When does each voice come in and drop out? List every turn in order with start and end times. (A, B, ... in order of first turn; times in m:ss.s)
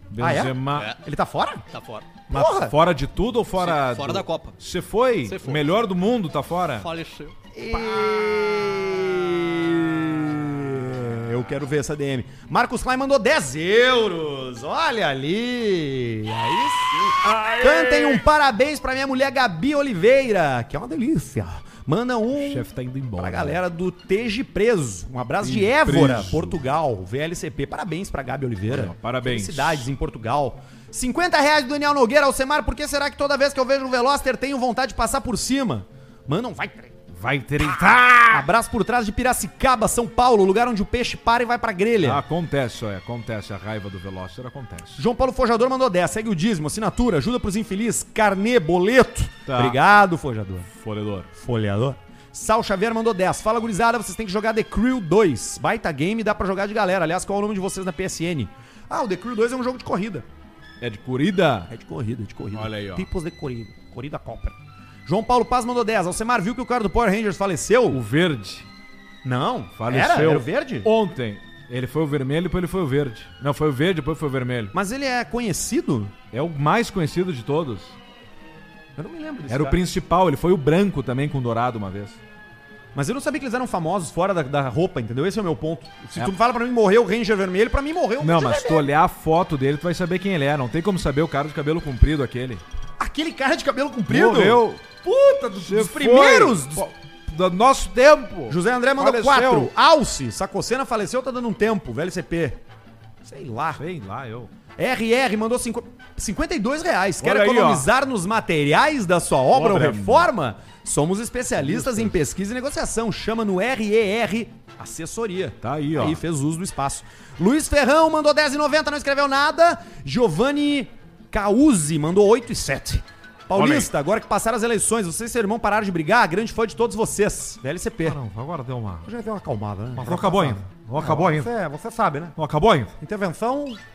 0:00.1-0:00.9 A
0:00.2-0:01.6 B
0:01.7-0:02.1 C
0:02.3-0:02.8 B
0:02.3-0:06.9 A
0:03.6-0:04.6 C
0:05.2-0:05.6 C
0:06.8-0:07.4 C
0:07.5-0:22.7 B
0:17.1-0:18.3 A
0:22.3-0:23.6 A
0:23.2-0:36.9 B
0:25.4-0:26.6 A
0:28.7-0:29.9 A
0:37.1-0:38.5 A
0:38.3-0:42.2 B
0:42.0-0:45.0 A
0:45.0-0:50.7 B
0:49.5-0:49.8 A
0:50.7-0:51.3 A
0:51.4-1:00.3 B
1:00.8-1:01.7 A
1:01.7-1:08.0 B
1:02.5-1:03.1 A
1:07.9-1:08.7 A
1:09.2-1:10.9 B
1:09.8-1:14.7 A
1:14.7-1:16.1 B
1:16.3-1:18.0 A
1:19.0-1:19.8 B
1:19.5-1:22.2 A
1:23.0-1:28.9 B
1:28.2-1:32.6 A
1:33.0-1:36.9 B
1:34.1-1:34.8 A
1:35.6-1:39.7 A
1:38.5-1:42.6 B
1:43.2-1:43.8 B
1:43.8-1:44.5 A
1:44.8-2:08.2 B
1:47.2-1:47.9 A
1:49.5-1:50.3 A
1:51.6-1:52.2 A
1:55.6-1:56.2 A
2:03.5-2:03.9 A
2:08.0-2:09.1 A
2:09.1-2:12.4 B
2:10.0-2:11.5 A
2:12.4-2:13.0 A
2:13.0-2:13.8 B